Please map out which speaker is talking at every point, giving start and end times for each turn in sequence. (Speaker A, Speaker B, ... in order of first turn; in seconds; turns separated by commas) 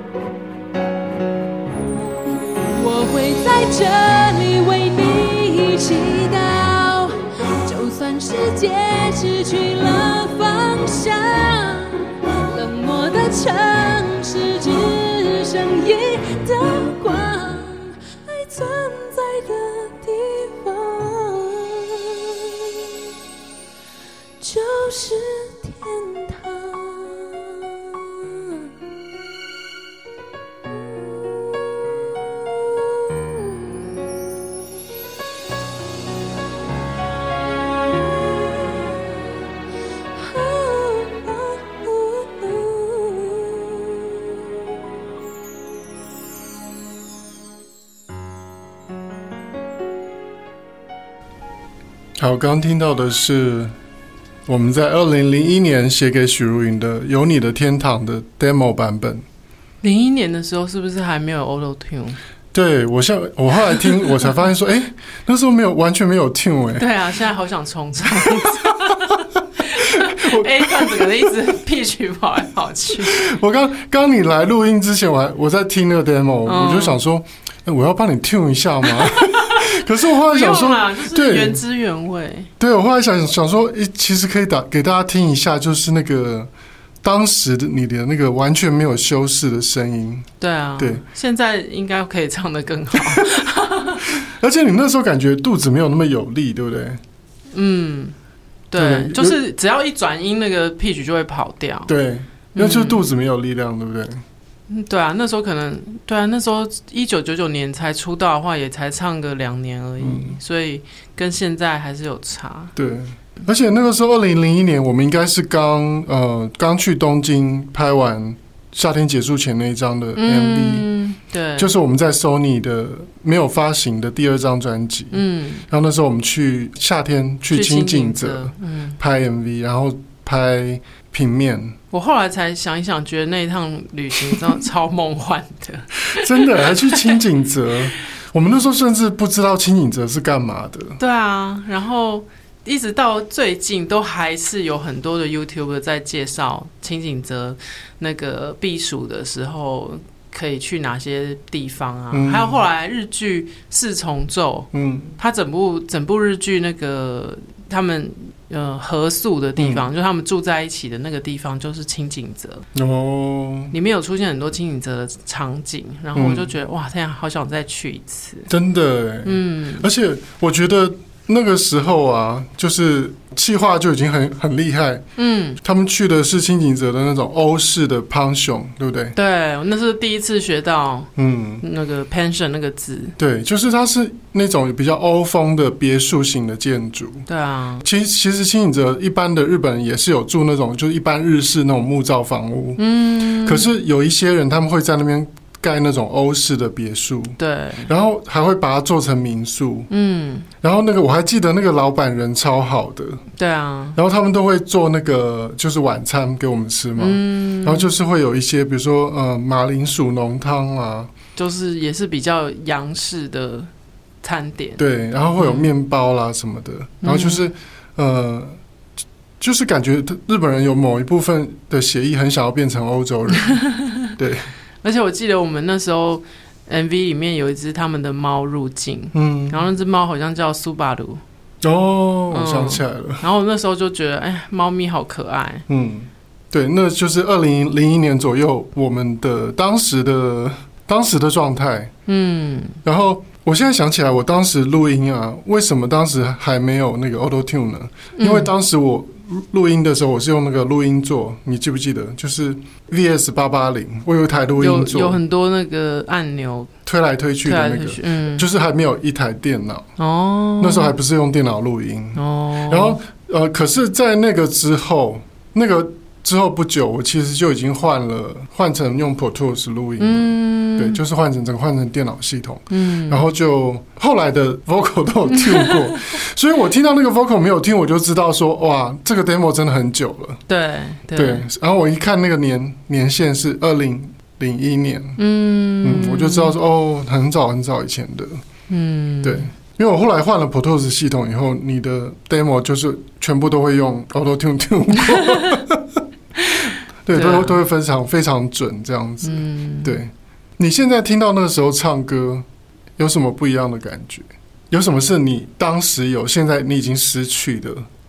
Speaker A: 2.6-22.8, Speaker A: 24.4-28.7, Speaker A: 31.1-33.8, Speaker A: 40.1-44.2, Speaker B: 52.2-53.7, Speaker B: 54.5-59.2, Speaker C: 59.8-62.2, Speaker B: 62.5-66.9, Speaker C: 66.8-73.2, Speaker B: 68.2-69.0, Speaker B: 69.7-71.3, Speaker B: 73.0-81.6, Speaker C: 76.5-77.0, Speaker C: 79.0-82.5, Speaker B: 82.6-86.5, Speaker B: 87.0-91.0, Speaker C: 90.4-94.1, Speaker B: 92.9-93.4, Speaker B: 94.0-97.0, Speaker C: 97.5-98.2, Speaker C: 98.7-101.9, Speaker B: 98.8-99.4, Speaker B: 101.9-104.2, Speaker C: 102.5-103.0, Speaker C: 104.7-112.7, Speaker B: 110.0-110.4, Speaker B: 112.8-120.9, Speaker C: 120.2-121.7, Speaker B: 121.6-131.8, Speaker C: 125.1-125.7, Speaker C: 127.5-129.0, Speaker C: 131.9-137.2, Speaker B: 136.1-141.0, Speaker C: 141.0-162.7, Speaker B: 152.1-152.6, Speaker B: 154.7-155.2, Speaker B: 159.6-159.9, Speaker B: 162.7-163.7, Speaker C: 163.7-168.5, Speaker B: 166.1-166.5, Speaker B: 168.5-175.1, Speaker C: 169.2-169.9, Speaker C: 175.2-175.6, Speaker B: 175.6-179.2, Speaker C: 179.2-183.2, Speaker B: 181.2-181.6, Speaker B: 183.2-187.3, Speaker C: 187.3-187.8, Speaker B: 187.8-192.8, Speaker C: 192.8-193.7, Speaker B: 193.4-199.9, Speaker C: 197.4-197.9, Speaker C: 199.9-200.5, Speaker B: 200.6-203.2, Speaker C: 203.4-204.0, Speaker B: 203.9-211.1, Speaker C: 207.0-207.9, Speaker C: 211.4-213.7, Speaker C: 214.2-214.8, Speaker B: 214.8-218.6, Speaker C: 215.4-215.7, Speaker C: 217.0-217.5, Speaker B: 219.4-223.6, Speaker C: 223.4-224.1, Speaker B: 224.2-224.5, Speaker C: 224.8-231.2, Speaker B: 229.1-229.7, Speaker B: 231.6-233.2, Speaker C: 232.3-235.7, Speaker B: 235.7-241.9, Speaker C: 242.1-242.8, Speaker B: 242.8-255.2, Speaker C: 248.2-248.5, Speaker C: 254.6-256.7, Speaker B: 256.9-259.9, Speaker C: 257.4-258.5, Speaker C: 260.0-261.0, Speaker B: 260.6-280.4, Speaker C: 262.2-263.0, Speaker C: 270.0-271.0, Speaker C: 272.7-273.2, Speaker C: 275.3-276.0, Speaker C: 280.5-281.4, Speaker B: 281.2-285.2, Speaker C: 285.2-286.6, Speaker B: 285.8-288.4, Speaker C: 288.7-289.5, Speaker B: 289.2-296.0, Speaker B: 296.6-302.4, Speaker C: 297.1-297.6, Speaker C: 299.2-300.0, Speaker B: 303.0-307.9